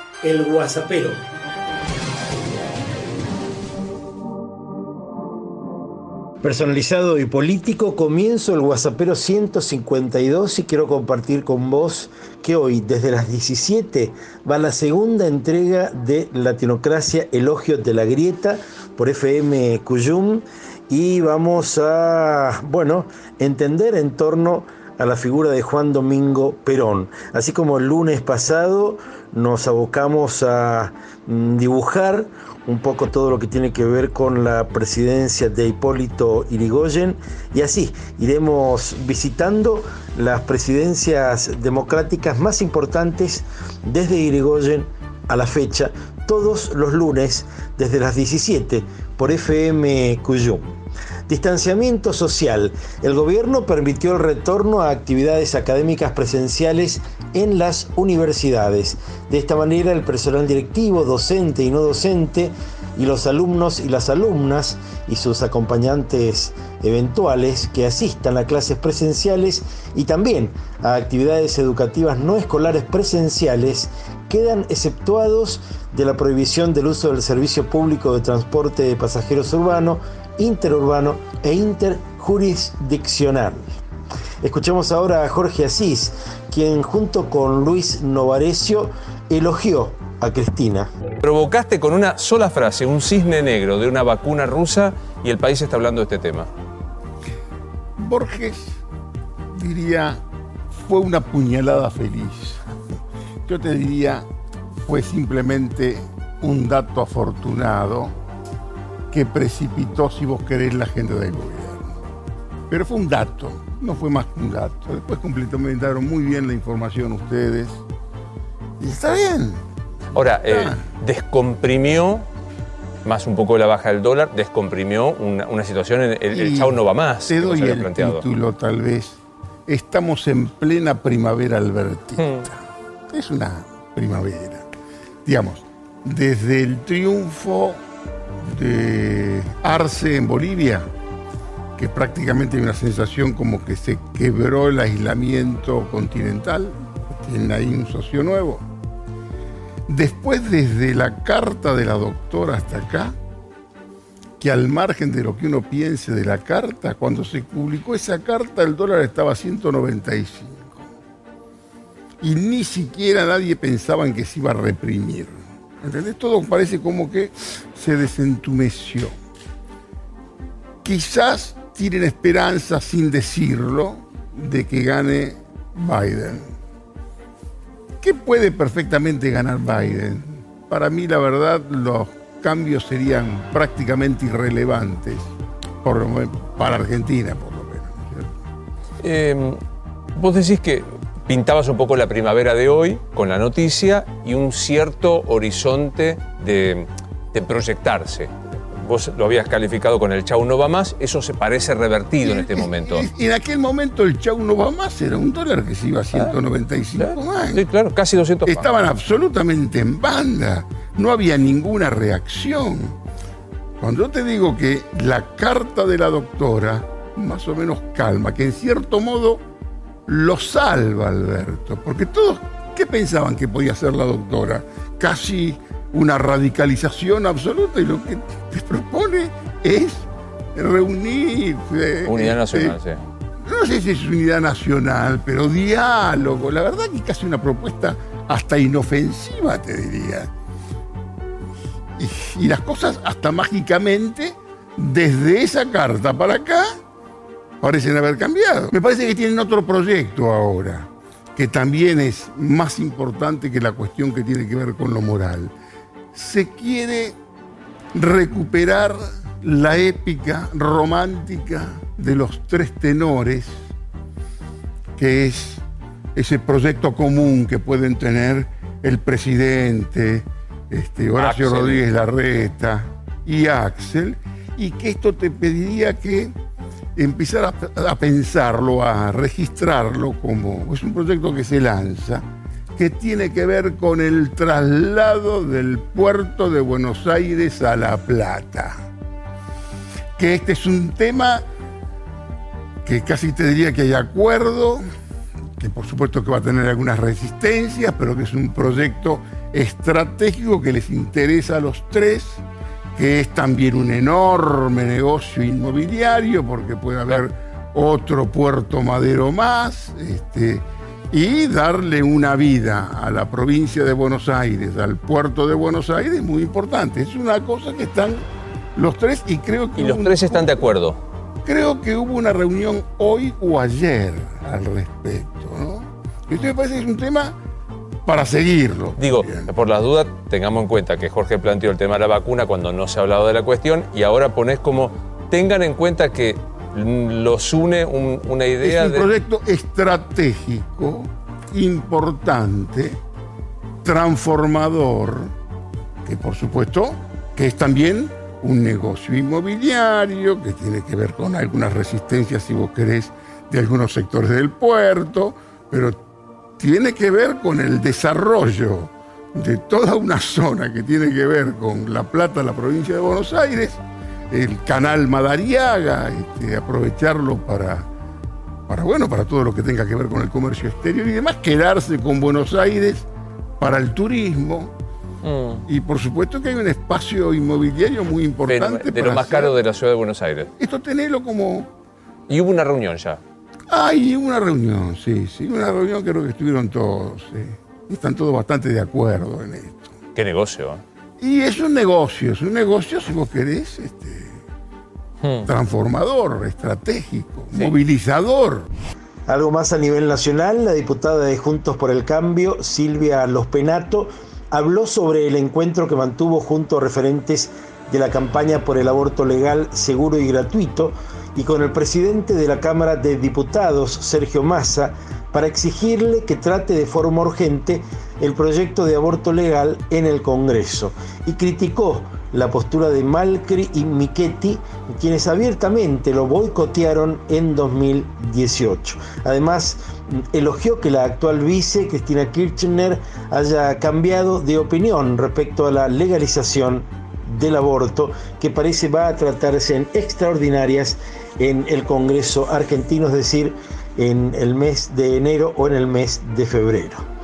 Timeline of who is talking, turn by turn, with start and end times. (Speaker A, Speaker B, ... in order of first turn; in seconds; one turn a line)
Speaker A: 0.2-1.2
Speaker A: 6.4-50.6
Speaker A: 51.3-83.7
Speaker A: 84.4-90.9
Speaker B: 91.2-96.5
Speaker C: 98.0-98.8
Speaker C: 99.5-100.2
Speaker C: 100.9-102.6
Speaker C: 103.5-104.2
Speaker C: 104.9-108.1
Speaker C: 109.1-112.0
Speaker C: 112.7-117.8
Speaker C: 118.8-119.6
Speaker B: 120.1-122.2
Speaker C: 120.4-120.8
Speaker B: 123.0-128.2
Speaker C: 126.3-132.6
Speaker C: 133.1-134.7
Speaker C: 135.2-137.8
Speaker C: 138.4-140.8
Speaker C: 141.8-148.6
Speaker C: 149.9-153.1
Speaker C: 154.4-160.8
Speaker C: 162.2-169.1
Speaker C: 170.8-176.5
Speaker C: 178.0-185.3
Speaker C: 185.8-188.3
Speaker B: 189.0-189.6
Speaker B: 190.2-203.1
Speaker C: 202.2-207.7
Speaker B: 207.0-208.7
Speaker C: 208.4-212.9
Speaker C: 213.8-219.4
Speaker C: 220.1-232.8
Speaker B: 232.1-233.0
Speaker C: 233.4-240.3
Speaker C: 242.0-246.7
Speaker C: 247.6-255.5
Speaker C: 256.1-257.1
Speaker C: 257.9-263.6
Speaker C: 265.0-265.6
Speaker C: 266.1-276.3
Speaker B: 271.2-271.8
Speaker C: 276.9-282.2
Speaker C: 282.8-288.7
Speaker C: 290.2-291.4
Speaker C: 292.8-294.8
Speaker C: 295.6-302.4
Speaker C: 302.9-318.2
Speaker C: 318.8-320.5
Speaker B: 319.8-321.0
Speaker C: 321.4-327.4
Speaker C: 328.1-329.5
Speaker B: 329.0-339.1
Speaker C: 338.6-343.0
Speaker C: 343.8-345.3
Speaker C: 346.0-355.9
Speaker C: 356.6-367.9
Speaker C: 368.7-373.1
Speaker C: 373.6-374.7
Speaker B: 375.2-375.6
Speaker C: 375.7-379.6
Speaker B: 378.5-380.5
Speaker C: 380.6-381.7
Speaker B: 382.3-383.2
Speaker C: 383.7-389.9
Speaker B: 390.1-390.8
Speaker C: 391.2-394.4
Speaker B: 395.2-395.5
Speaker C: 395.4-398.7
Speaker A: 399.3-447.1